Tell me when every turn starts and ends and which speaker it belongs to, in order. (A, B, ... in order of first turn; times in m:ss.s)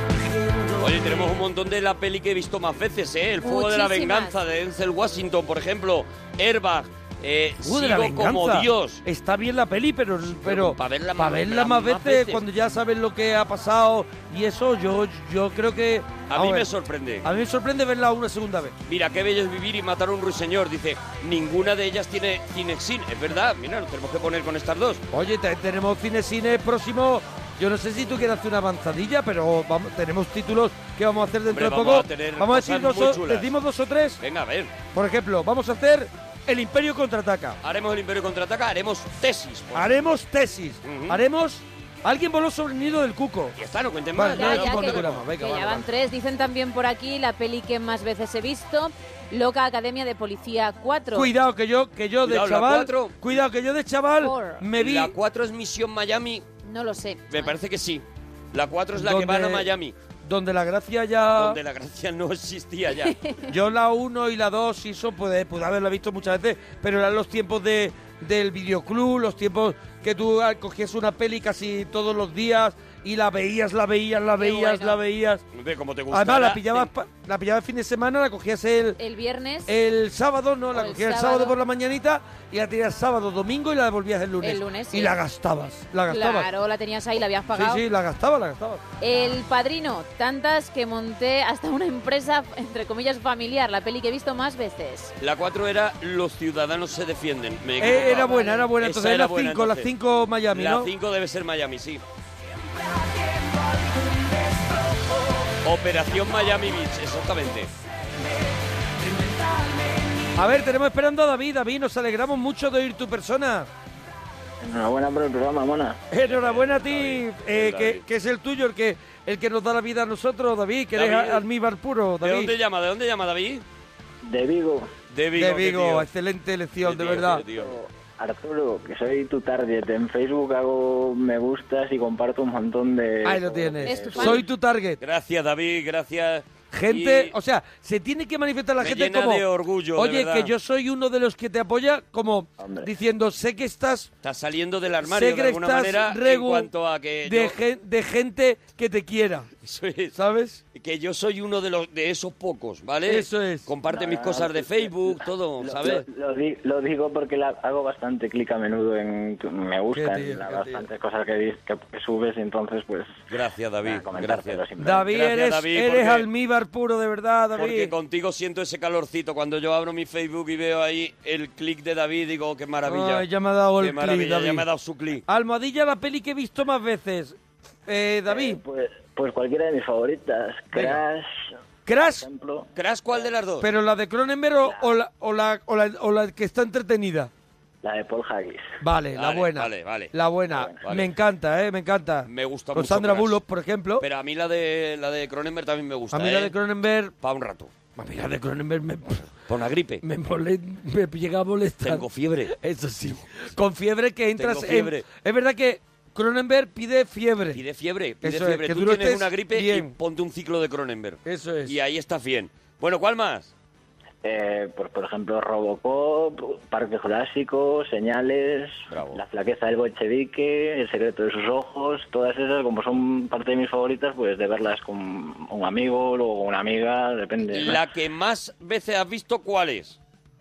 0:00.4-0:00.7 A
0:00.8-0:09.0 B
0:03.4-0:04.4 C
0:07.6-0:16.7 D
0:10.3-0:12.4 B
0:16.3-0:17.3 B
0:17.2-0:18.8 D
0:18.9-0:25.0 B
0:25.1-0:34.2 D
0:31.5-0:33.5 B
0:34.2-0:34.7 B
0:34.9-0:37.6 D
0:37.6-0:40.0 B
0:39.7-0:43.6 D
0:40.8-0:41.2 B
0:43.6-0:45.2 B
0:44.2-0:45.8 D
0:44.2-0:51.3 C
0:51.1-0:55.2 D
0:52.2-0:53.2 B
0:54.2-0:54.6 C
0:54.8-0:56.4 B
0:56.6-0:57.5 C
0:57.3-1:00.0 B
0:59.0-0:59.7 D
1:00.2-1:01.6 D
1:01.3-1:03.2 B
1:03.0-1:03.5 C
1:03.5-1:15.4 D
1:14.4-1:15.0 C
1:15.5-1:16.9 B
1:16.1-1:19.0 D
1:19.0-1:19.7 C
1:19.7-1:26.5 D
1:20.7-1:21.6 C
1:24.4-1:25.2 C
1:26.1-1:27.8 C
1:27.5-1:28.8 D
1:29.0-1:35.1 C
1:35.2-1:39.9 B
1:37.8-1:40.9 D
1:37.8-1:38.7 C
1:40.5-1:42.0 B
1:43.3-1:44.5 A
1:45.6-1:47.7 B
1:49.0-1:50.3 A
1:50.4-1:53.7 D
1:54.6-1:56.0 E
1:56.1-2:02.5 D
1:56.2-1:58.0 B
2:00.9-2:01.4 B
2:02.2-2:03.6 B
2:04.2-2:04.9 E
2:05.1-2:06.1 B
2:05.4-2:07.4 D
2:06.8-2:07.8 B
2:07.5-2:14.4 E
2:13.2-2:15.0 D
2:13.8-2:14.4 C
2:15.0-2:17.4 B
2:16.7-2:19.4 D
2:18.8-2:20.5 B
2:20.0-2:24.1 D
2:22.6-2:22.9 E
2:24.2-2:27.6 B
2:25.0-2:26.7 D
2:27.2-2:29.5 D
2:29.6-2:30.1 B
2:30.2-2:30.6 D
2:30.7-2:36.1 B
2:33.1-2:33.7 D
2:33.9-2:43.1 E
2:39.9-2:40.8 D
2:43.3-2:46.3 B
2:43.8-2:45.1 E
2:44.8-2:47.9 D
2:47.6-2:53.3 B
2:52.8-2:54.7 D
2:53.8-2:55.2 B
2:55.3-2:58.6 D
2:58.3-3:03.3 E
3:01.9-3:02.3 D
3:02.8-3:03.7 B
3:03.6-3:07.3 D
3:04.6-3:04.9 E
3:07.8-3:08.6 E
3:08.8-3:14.0 D
3:09.2-3:10.1 B
3:10.5-3:10.8 E
3:10.8-3:11.1 B
3:12.3-3:13.4 B
3:14.0-3:16.6 B
3:16.1-3:17.1 D
3:17.2-3:17.7 B
3:18.0-3:19.3 D
3:19.5-3:20.0 B
3:20.0-3:27.6 D
3:21.8-3:22.5 B
3:24.4-3:25.0 B
3:27.5-3:33.5 B
3:28.2-3:29.9 D
3:31.3-3:31.8 D
3:34.2-3:47.8 E
3:38.9-3:39.2 B
3:47.5-3:50.0 B